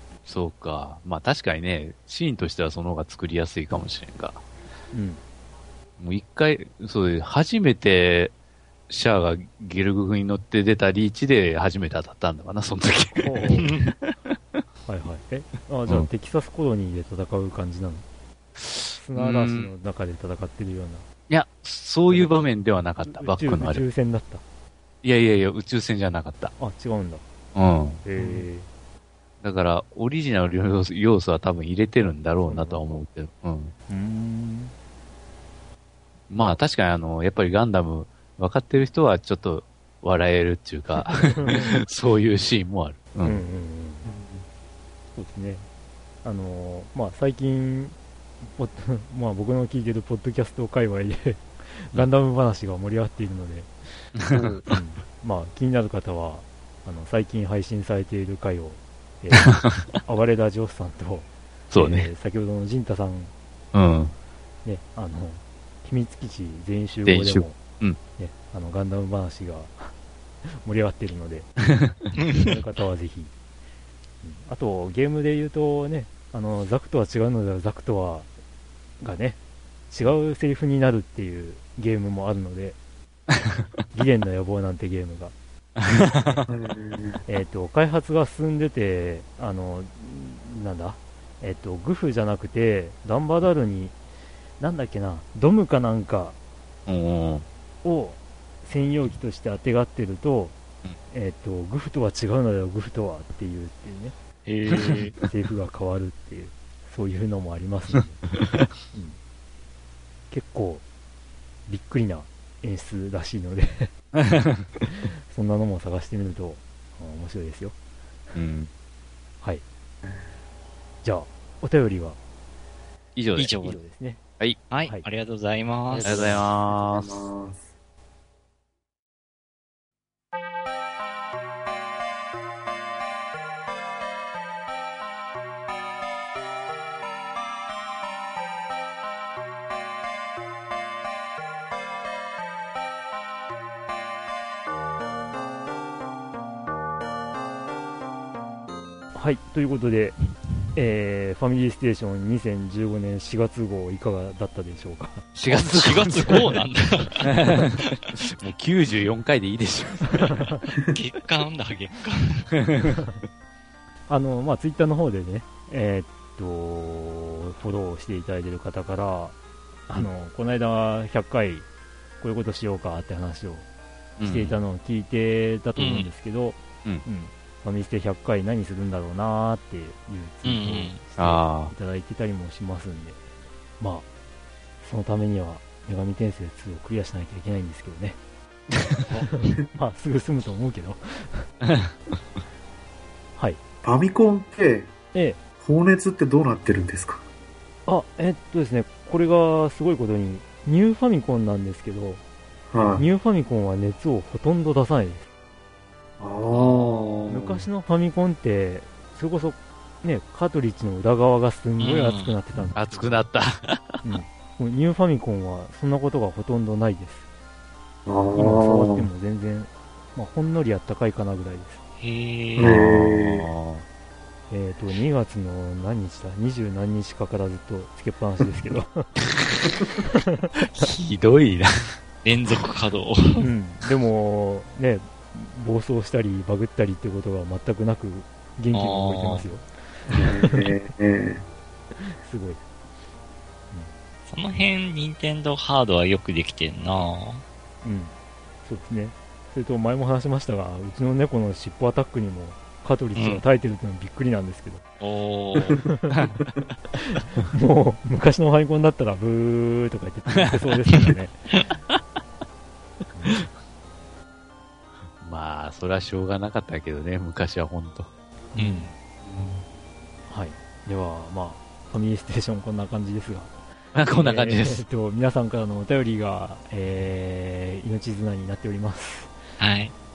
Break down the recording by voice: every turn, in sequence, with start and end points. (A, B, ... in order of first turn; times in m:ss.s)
0:00.2-0:04.4 A
0:04.9-0:05.2 B
0:06.0-0:08.3 A
0:08.9-0:14.1 A
0:13.1-0:13.7 B
0:13.6-0:13.9 C
0:14.8-0:18.0 B
0:18.6-0:19.7 A
0:18.9-0:21.0 B
0:21.3-0:23.8 A
0:22.1-0:22.5 B
0:23.0-0:24.4 B
0:25.0-0:26.5 A
0:26.6-0:27.2 B
0:27.5-0:28.0 A
0:28.0-0:28.7 B
0:28.2-0:28.4 D
0:29.4-0:33.7 A
0:32.4-0:33.0 B
0:33.9-0:34.7 B
0:36.3-0:43.4 A
0:41.0-0:41.8 B
0:43.2-0:44.1 B
0:44.0-0:44.4 D
0:45.2-0:45.7 B
0:46.2-0:53.7 B
0:54.2-0:54.4 A
0:54.3-0:54.6 D
0:54.6-1:03.3 B
1:01.7-1:02.1 A
1:03.7-1:04.1 A
1:04.6-1:07.6 B
1:07.0-1:08.0 A
1:08.2-1:11.5 B
1:12.2-1:12.5 C
1:12.3-1:13.3 B
1:14.2-1:18.3 B
1:19.0-1:19.4 B
1:19.9-1:22.8 B
1:23.9-1:25.3 B
1:26.5-1:27.2 D
1:27.3-1:34.0 B
1:34.6-1:36.4 B
1:36.8-1:37.4 A
1:37.8-1:40.6 B
1:41.1-1:44.1 B
1:44.4-1:45.1 C
1:45.2-1:48.2 B
1:48.9-1:49.2 B
1:50.3-1:50.8 B
1:51.7-1:53.9 B
1:54.2-1:54.6 A
1:55.3-1:57.8 B
1:58.3-1:58.7 A
2:01.0-2:02.2 B
2:03.1-2:03.6 A
2:03.4-2:03.8 C
2:03.6-2:04.2 B
2:04.7-2:06.2 C
2:05.9-2:07.7 D
2:06.0-2:07.3 A
2:29.1-2:30.2 B
2:30.7-2:35.3 B
2:35.3-2:36.6 A
2:35.5-2:37.3 C
2:35.8-2:36.3 B
2:37.2-2:40.5 A
2:40.2-2:40.6 B
2:40.9-2:42.5 C
2:42.6-2:43.0 A
2:44.1-2:49.3 B
2:49.9-2:51.6 B
2:52.2-2:53.6 B
2:54.2-2:54.6 A
2:54.2-3:03.2 B
2:55.8-2:56.1 C
3:00.4-3:01.0 C
3:01.2-3:01.7 A
3:03.8-3:04.0 B
3:04.8-3:08.2 B
3:09.2-3:11.4 B
3:11.6-3:11.9 A
3:13.8-3:14.9 D
3:15.6-3:17.2 D
3:17.9-3:22.2 B
3:22.7-3:23.0 D
3:23.0-3:25.3 B
3:26.2-3:27.7 D
3:26.5-3:26.8 C
3:27.3-3:33.2 B
3:31.8-3:32.3 C
3:32.7-3:34.0 A
3:34.0-3:37.2 B
3:38.0-3:39.1 D
3:38.4-3:41.8 B
3:42.0-3:42.7 C
3:42.6-3:43.5 D
3:42.6-3:43.8 A
3:44.5-3:49.1 B
3:49.2-3:49.6 A
3:50.0-3:50.5 B
3:50.6-3:51.7 A
3:52.2-3:53.5 C
3:53.4-4:00.7 B
3:58.7-3:59.4 C
4:00.2-4:01.4 D
4:02.0-4:02.6 B
4:04.3-4:07.4 C
4:07.8-4:14.8 B
4:13.2-4:13.4 C
4:15.0-4:15.8 C
4:15.8-4:16.2 B
4:16.9-4:21.3 B
4:23.1-4:23.4 B
4:25.2-4:28.1 A
4:28.5-4:28.9 B
4:28.6-4:28.9 C
4:29.2-4:29.6 D
4:30.3-4:33.5 B
4:33.9-4:34.8 A
4:34.1-4:39.3 B
4:39.6-4:39.9 C